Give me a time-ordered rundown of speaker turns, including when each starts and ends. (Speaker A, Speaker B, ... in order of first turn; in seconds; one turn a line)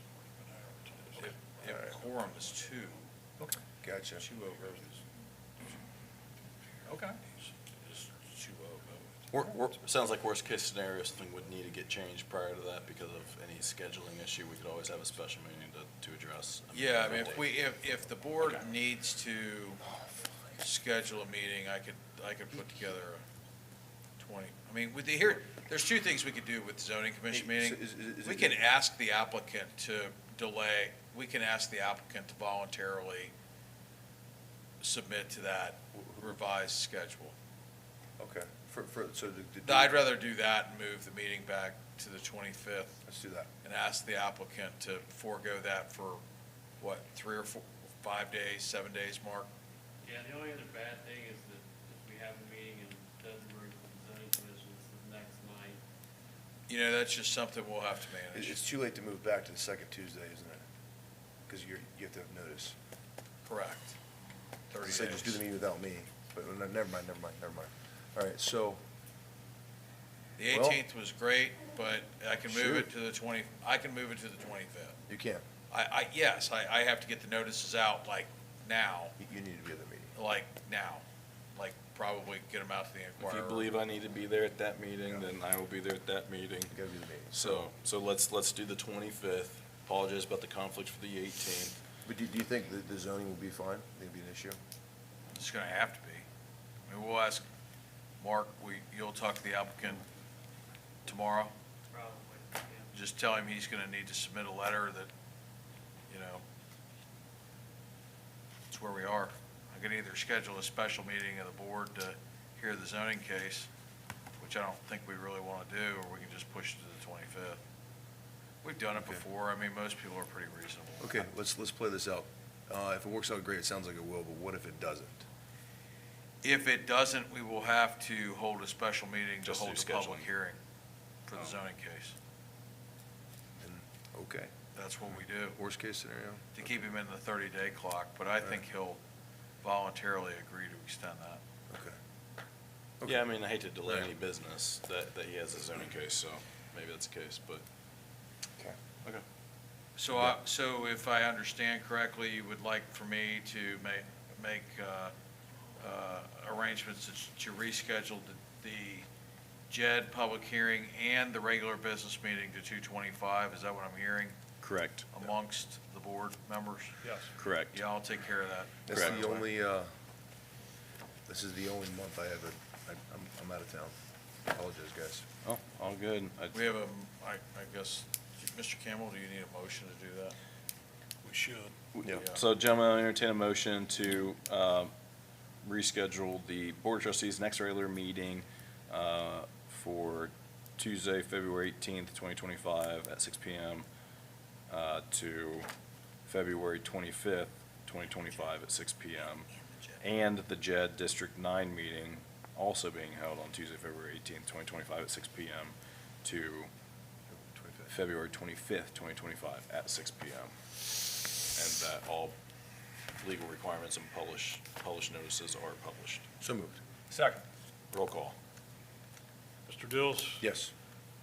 Speaker A: 0.4-1.3
Speaker B: 1.1-3.1
Speaker C: 1.6-1.9
Speaker C: 3.8-4.2
Speaker B: 4.2-5.0
Speaker B: 6.9-9.3
Speaker D: 9.3-17.5
Speaker B: 16.7-19.8
Speaker B: 20.6-23.2
Speaker B: 24.2-33.3
Speaker C: 27.3-28.6
Speaker B: 34.8-37.4
Speaker C: 36.0-36.3
Speaker C: 38.2-40.0
Speaker B: 39.6-43.0
Speaker C: 43.1-43.5
Speaker B: 43.6-46.2
Speaker B: 46.8-49.5
Speaker E: 50.0-55.8
Speaker B: 56.7-58.6
Speaker C: 58.3-60.6
Speaker C: 61.5-62.8
Speaker B: 63.5-64.0
Speaker B: 64.7-65.4
Speaker C: 64.8-68.8
Speaker B: 70.4-75.0
Speaker C: 70.5-70.8
Speaker C: 72.4-72.9
Speaker C: 75.1-75.4
Speaker B: 75.7-79.2
Speaker C: 79.2-80.1
Speaker B: 80.2-83.8
Speaker D: 83.2-86.8
Speaker C: 86.7-87.7
Speaker D: 87.3-91.8
Speaker C: 92.0-94.6
Speaker B: 95.3-96.3
Speaker B: 96.9-97.4
Speaker B: 98.2-100.0
Speaker B: 101.0-101.5
Speaker E: 101.9-102.9
Speaker B: 102.9-105.1
Speaker B: 106.1-106.4
Speaker B: 108.7-113.7
Speaker B: 114.4-117.6
Speaker B: 118.6-121.1
Speaker C: 119.0-119.2
Speaker C: 121.0-125.2
Speaker B: 126.4-130.6
Speaker D: 129.4-130.3
Speaker B: 131.3-132.2
Speaker C: 133.6-134.5
Speaker B: 134.7-135.6
Speaker C: 135.5-136.7
Speaker B: 136.6-139.0
Speaker B: 139.6-141.4
Speaker C: 141.7-141.9
Speaker D: 143.1-147.6
Speaker B: 150.0-155.1
Speaker B: 155.8-159.1
Speaker B: 159.7-164.4
Speaker D: 164.6-165.1
Speaker B: 165.1-166.9
Speaker A: 167.0-167.3
Speaker D: 167.4-167.8
Speaker B: 167.7-169.4
Speaker C: 168.9-169.9
Speaker D: 168.9-169.2
Speaker C: 171.3-173.9
Speaker C: 174.5-175.2
Speaker D: 175.4-176.6
Speaker B: 176.5-180.4
Speaker A: 181.2-181.7
Speaker D: 181.9-184.9
Speaker B: 182.1-182.4
Speaker D: 185.6-193.9
Speaker D: 194.7-195.7
Speaker D: 196.3-199.5
Speaker D: 200.0-206.7
Speaker C: 207.4-207.9
Speaker D: 207.9-210.5
Speaker D: 211.5-212.3
Speaker D: 213.2-216.3
Speaker C: 216.4-216.8
Speaker D: 217.9-218.3
Speaker A: 219.7-220.4
Speaker C: 220.4-220.7